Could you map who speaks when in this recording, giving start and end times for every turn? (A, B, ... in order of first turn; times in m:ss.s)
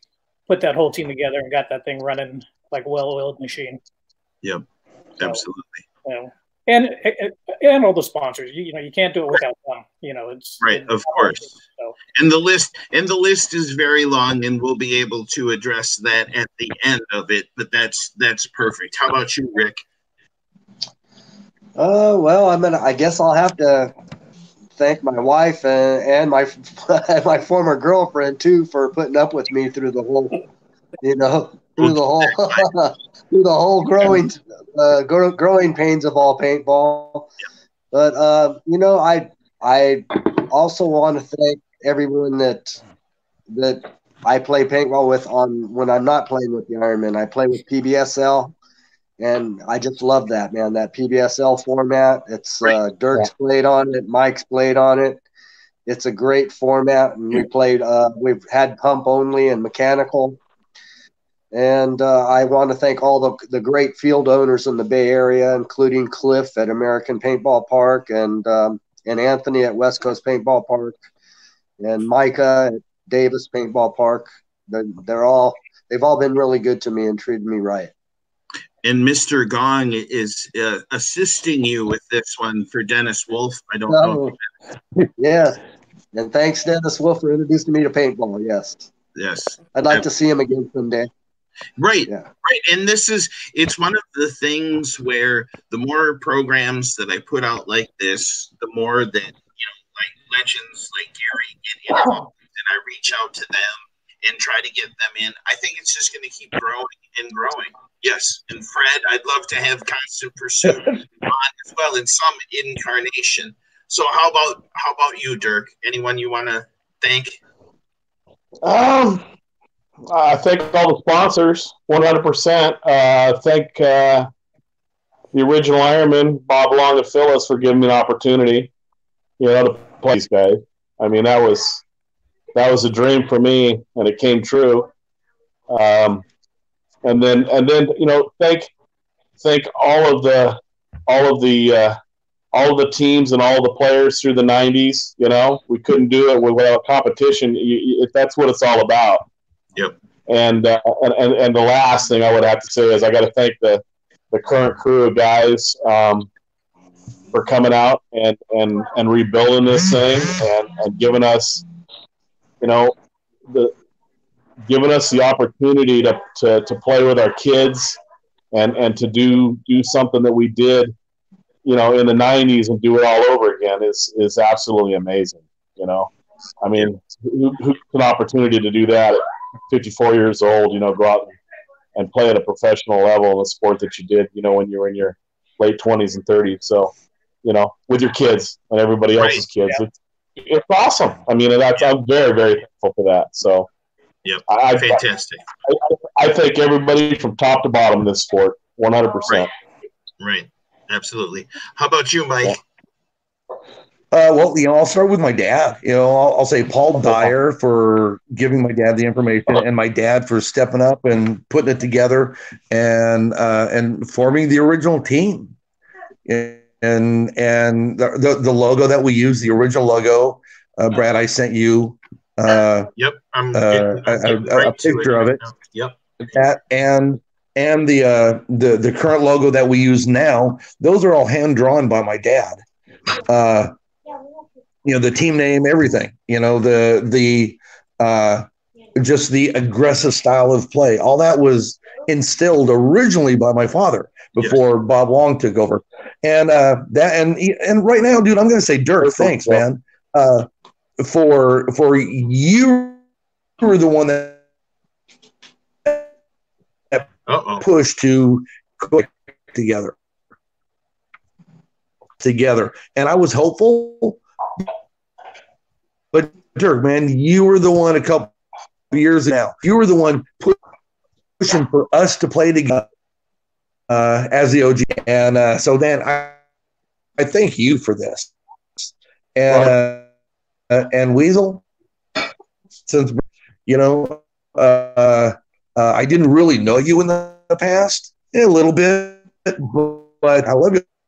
0:00.5-0:03.8 A
0:05.2-0:05.8 B
0:06.0-0:12.0 A
0:10.6-0:11.6 B
0:12.2-0:19.8 B
0:21.8-0:23.9 C
0:24.8-0:30.5 C
0:31.0-0:37.3 C
0:31.8-0:32.7 B
0:37.9-0:42.8 C
0:43.5-0:48.5 C
0:49.2-0:55.2 C
0:55.9-1:00.4 C
1:01.5-1:11.0 C
1:11.8-1:17.9 C
1:18.8-1:24.4 B
1:23.9-1:24.4 C
1:25.2-1:25.6 C
1:26.1-1:28.9 C
1:29.1-1:30.0 B
1:29.7-1:31.1 C
1:31.8-1:57.4 B
1:58.6-1:59.2 D
2:00.1-2:04.3 D
2:05.3-2:08.7 D
2:09.4-2:11.8 D
2:12.5-2:14.9 D
2:15.7-2:16.2 D
2:17.0-2:18.7 D
2:19.4-2:22.0 D
2:22.5-2:29.2 D
2:30.3-2:36.3 D
2:37.3-2:41.6 D
2:42.6-2:42.9 D
2:43.5-2:43.7 D
2:44.6-2:48.0 D
2:48.5-2:50.9 D
2:51.6-3:01.4 D
3:01.9-3:06.9 D
3:07.4-3:13.7 D
3:09.2-3:09.4 B
3:14.2-3:15.4 B
3:14.5-3:15.0 D
3:15.7-3:19.5 D
3:20.2-3:22.6 B
3:24.1-3:35.6 E
3:36.2-3:42.9 E
3:42.9-3:46.0 B
3:43.5-3:45.4 E
3:46.3-3:52.6 E
3:53.2-3:53.7 E
3:54.8-4:10.5 E
4:09.0-4:09.6 D
4:11.0-4:13.0 E
4:13.6-4:14.4 E
4:17.3-4:17.6 B
4:17.6-4:19.9 E
4:22.2-4:24.6 E
4:26.1-4:28.3 E
4:28.9-4:30.6 E
4:31.4-4:32.9 E
4:33.9-4:36.4 E
4:37.2-4:40.0 E
4:40.7-4:41.6 E
4:42.9-4:50.8 E